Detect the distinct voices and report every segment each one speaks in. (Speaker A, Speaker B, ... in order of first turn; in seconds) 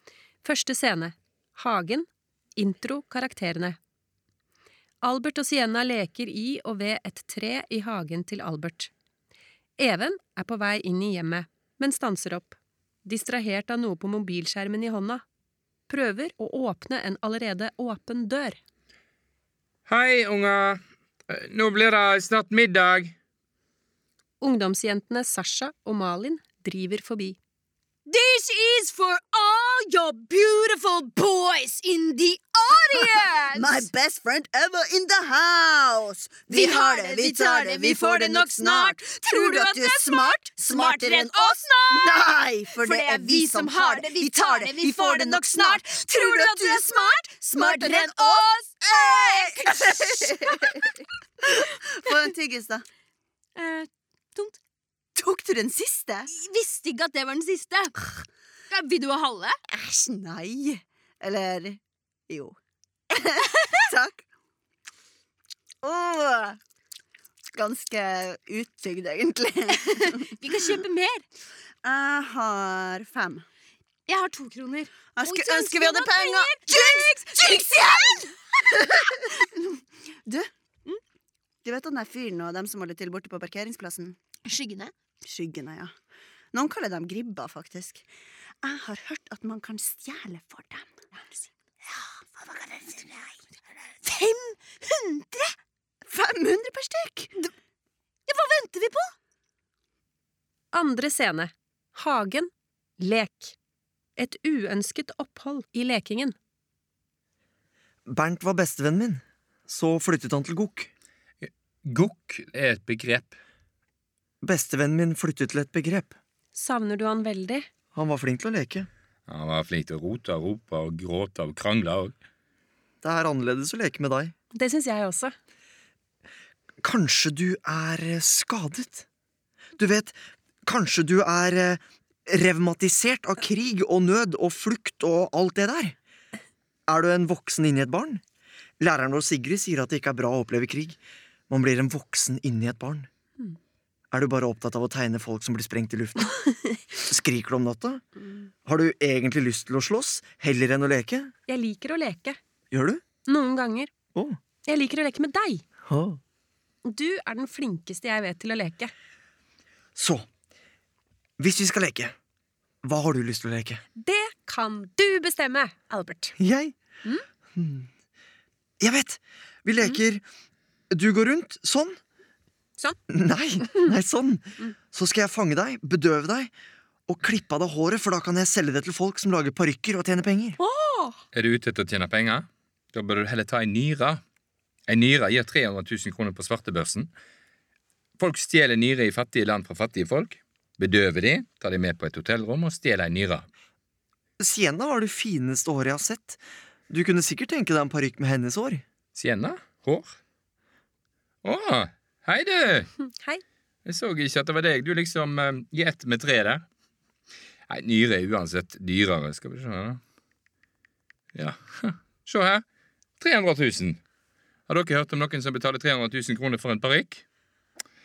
Speaker A: 0.4-3.8, 5.0-8.9, 9.8-15.2, 15.9-18.6, 24.4-27.4, 100.7-103.5, 104.2-106.3, 116.5-117.7, 124.5-125.3, 151.5-152.4, 153.3-153.9, 154.7-155.6, 156.8-158.9, 164.0-166.3, 180.6-181.2, 203.1-203.4
Speaker B: 19.9-23.1, 111.4-113.3, 119.3-122.1, 181.3-184.2, 184.9-187.1, 188.2-193.4, 199.1-200.2, 201.4-202.9, 203.8-206.6, 207.7-210.0, 211.3-212.6, 213.2-214.0, 214.7-217.2
Speaker C: 28.1-33.9, 36.5-50.9, 53.5-54.6, 56.3-58.1, 58.7-59.6, 69.8-71.2, 74.1-78.2, 84.5-84.9, 94.0-95.5, 98.3-99.1
Speaker D: 33.5-50.8, 51.5-52.9, 55.2-56.3, 59.7-62.5, 63.1-64.2, 65.8-66.6, 67.5-70.8, 71.8-73.5, 75.2-80.5, 81.6-84.2, 85.2-85.9, 86.5-88.0, 88.6-90.9, 92.6-93.0, 96.1-97.5
Speaker E: 108.1-110.9, 114.4-116.1, 117.9-118.9, 123.0-124.3, 126.8-129.0, 129.8-135.9, 136.9-138.2, 138.8-143.1, 144.1-146.3, 147.0-148.0, 148.6-151.3, 152.7-153.0, 155.9-156.2, 159.9-160.2, 161.4-162.1, 162.8-163.8, 166.4-166.7, 167.5-167.9, 168.8-170.2, 170.9-172.0, 173.1-176.5, 177.1-180.6, 194.4-198.8